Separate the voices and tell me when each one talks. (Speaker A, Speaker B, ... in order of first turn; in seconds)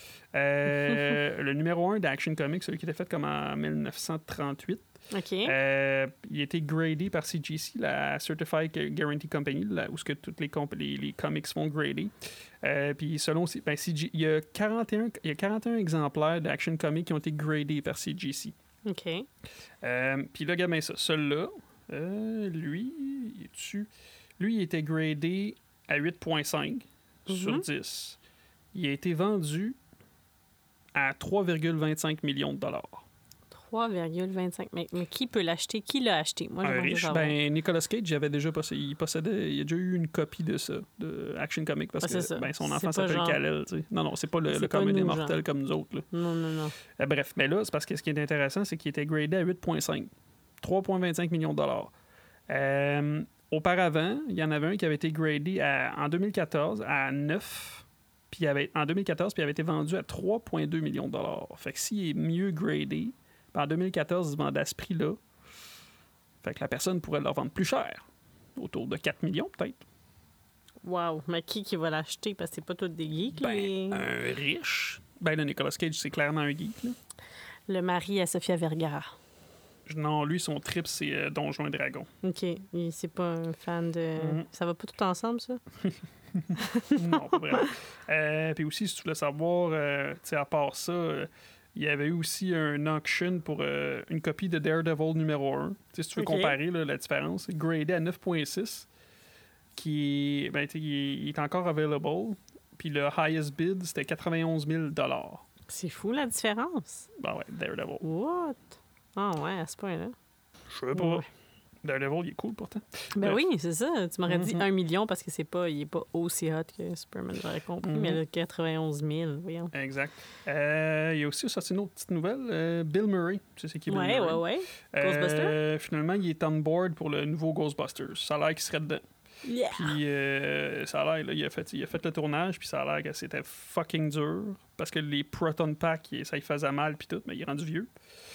Speaker A: 0.3-4.9, 5.5-18.5, 19.8-28.2, 28.7-29.8, 30.9-33.1, 36.6-46.1, 46.9-51.9, 52.5-65.2, 66.4-68.0, 68.6-69.8, 73.3-77.0, 79.9-82.1, 84.2-84.5, 85.9-98.9, 99.8-105.5, 107.2-108.0, 110.7-111.3, 111.8-113.4, 114.3-114.7, 117.8-118.2, 119.7-129.0, 129.7-137.9
Speaker B: 5.1-5.5, 18.9-19.3, 27.3-27.6, 33.5-37.4, 42.0-43.4, 44.5-45.4, 46.1-46.8, 70.8-74.1, 77.7-79.1, 82.2-85.6, 86.6-87.7, 96.2-96.6, 105.7-107.1, 108.0-110.2, 110.9-111.2, 113.2-119.7, 123.9-125.6, 129.4-130.0